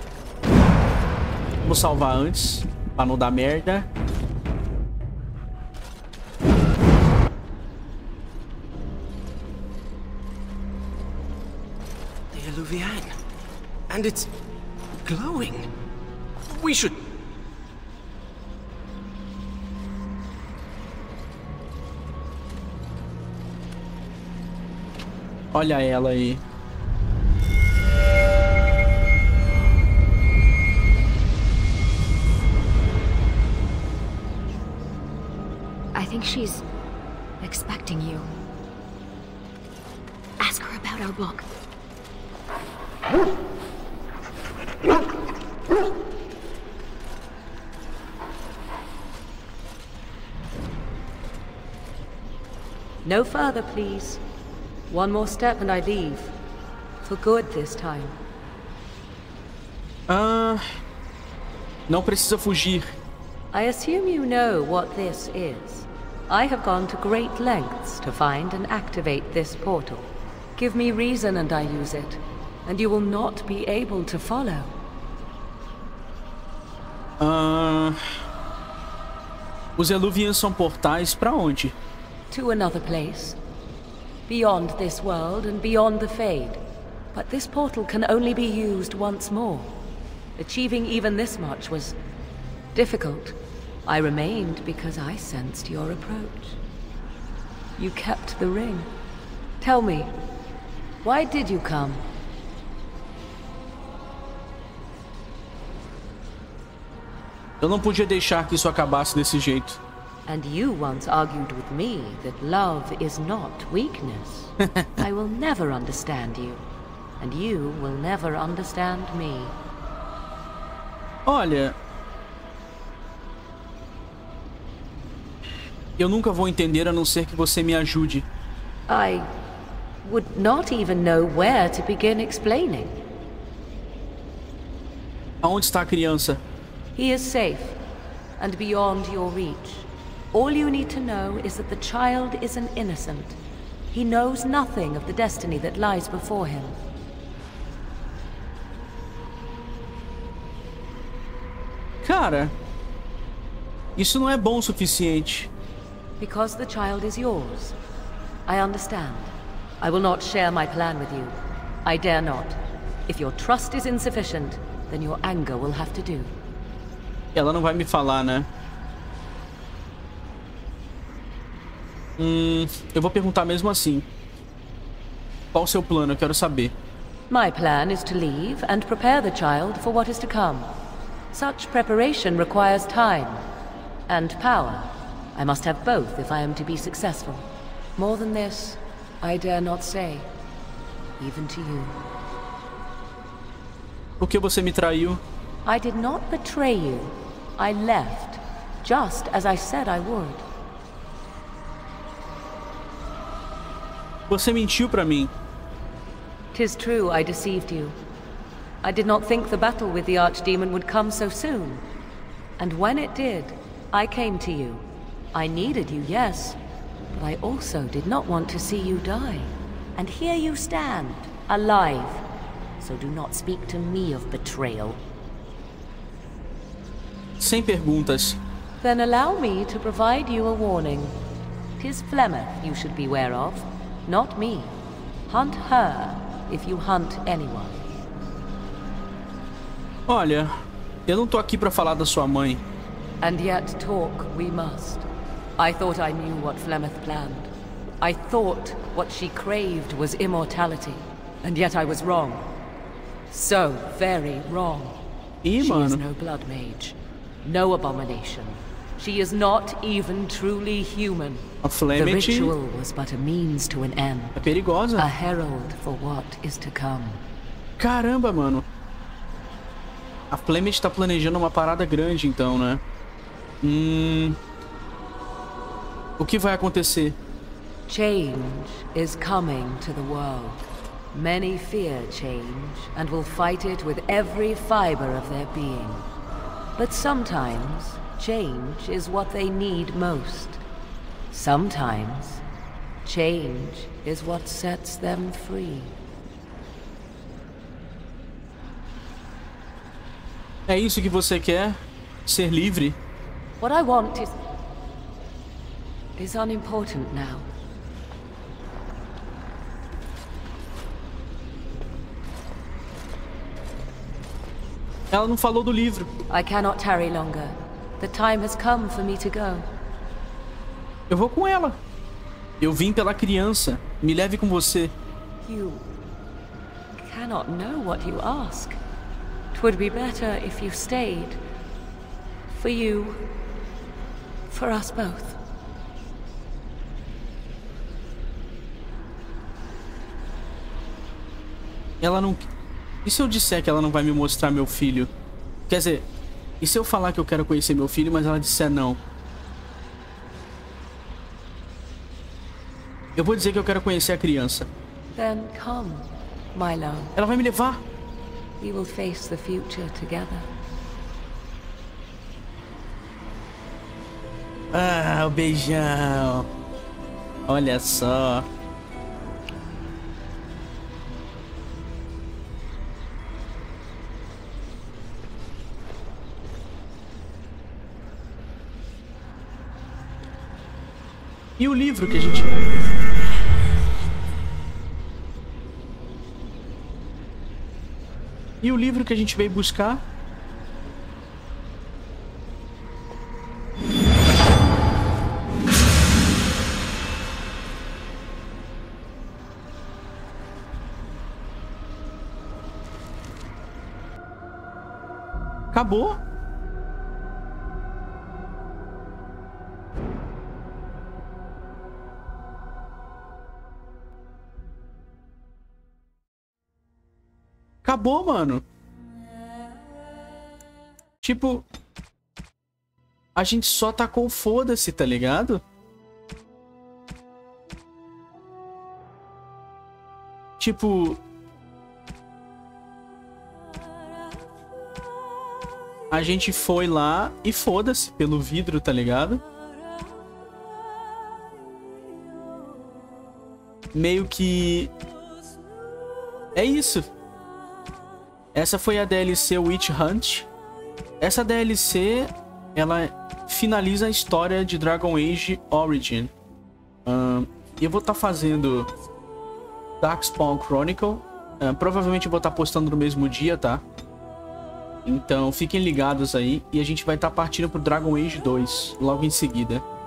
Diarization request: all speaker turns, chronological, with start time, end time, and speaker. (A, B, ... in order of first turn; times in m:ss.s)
0:01.6-0:03.9 A
0:12.3-0:13.2 B
0:13.9-0:14.3 B
0:15.0-0:15.7 B
0:16.4-0:17.1 B
0:25.5-0:26.4 A
0:35.9-0:36.6 C
0:37.4-0:38.3 C
0:40.4-0:41.5 C
0:53.0-0:54.2 D
0:54.9-0:56.3 D
0:57.0-0:58.2 D
1:00.1-1:00.7 A
1:01.9-1:02.8 A
1:03.5-1:14.7 D
1:17.2-1:18.0 A
1:19.8-1:21.7 A
1:22.3-1:23.4 D
1:24.3-1:29.8 D
1:30.4-1:32.0 D
1:32.7-1:36.6 D
1:37.8-1:38.9 D
1:39.6-1:40.2 D
1:41.0-1:42.0 D
1:47.6-1:49.8 A
1:50.3-1:56.6 D
1:54.7-1:55.0 A
1:57.2-1:59.6 D
2:01.2-2:01.7 A
2:06.0-2:08.3 A
2:08.9-2:09.3 D
2:10.0-2:13.0 D
2:15.4-2:16.4 A
2:16.9-2:17.8 D
2:18.4-2:23.4 D
2:23.9-2:26.8 D
2:32.0-2:32.5 A
2:34.0-2:35.5 A
2:36.2-2:37.8 D
2:38.5-2:46.3 D
2:47.3-2:48.5 A
2:52.2-2:54.0 A
2:55.5-2:56.7 A
2:57.3-3:00.7 D
3:01.3-3:03.4 D
3:04.1-3:10.3 D
3:11.2-3:12.0 D
3:14.2-3:15.2 A
3:15.6-3:20.4 D
3:24.3-3:25.3 A
3:26.5-3:28.0 D
3:28.8-3:31.8 D
3:32.6-3:36.6 D
3:37.1-3:42.2 D
3:42.8-3:45.0 D
3:47.4-3:48.4 A
3:48.8-3:51.2 D
3:51.8-3:57.8 D
4:00.1-4:02.6 A
4:03.2-4:05.1 D
4:05.6-4:12.5 D
4:13.3-4:15.0 D
4:15.4-4:16.0 A
4:15.6-4:24.4 D
4:21.6-4:22.5 A
4:24.4-4:25.1 A
4:25.0-4:27.2 D
4:27.8-4:28.6 A
4:30.3-4:32.8 A
4:33.6-4:34.4 A
4:36.2-4:37.2 A
4:37.9-4:46.1 D
4:46.8-4:50.6 D
4:51.3-4:52.4 D
4:53.0-4:56.0 D
5:00.7-5:03.0 A
5:03.6-5:04.3 D
5:06.2-5:07.5 D
5:15.1-5:16.1 A
5:16.3-5:19.7 D
5:21.1-5:21.8 A
5:22.6-5:24.9 A
5:25.4-5:25.9 D
5:27.0-5:28.8 D
5:29.5-5:31.4 D
5:32.5-5:33.3 D
5:34.5-5:35.4 D
5:42.0-5:42.5 A
5:43.0-5:45.1 A
5:45.7-5:46.0 A
5:46.6-5:49.0 A
5:53.2-5:54.7 A
5:55.1-5:57.1 D
5:57.1-5:57.8 A
5:58.6-6:00.5 D
6:04.7-6:06.5 A
6:07.5-6:08.4 A
6:21.6-6:22.6 A
6:28.6-6:30.0 A
6:45.7-6:46.2 A
6:57.8-6:58.6 A
7:01.2-7:01.6 A
7:03.4-7:05.6 A
7:10.6-7:11.2 A
7:16.1-7:19.4 A
7:23.9-7:24.9 A
7:26.5-7:27.1 A
7:28.5-7:30.5 A
7:31.2-7:36.3 A
7:37.0-7:38.9 A
7:40.0-7:43.8 A
7:45.0-7:49.8 A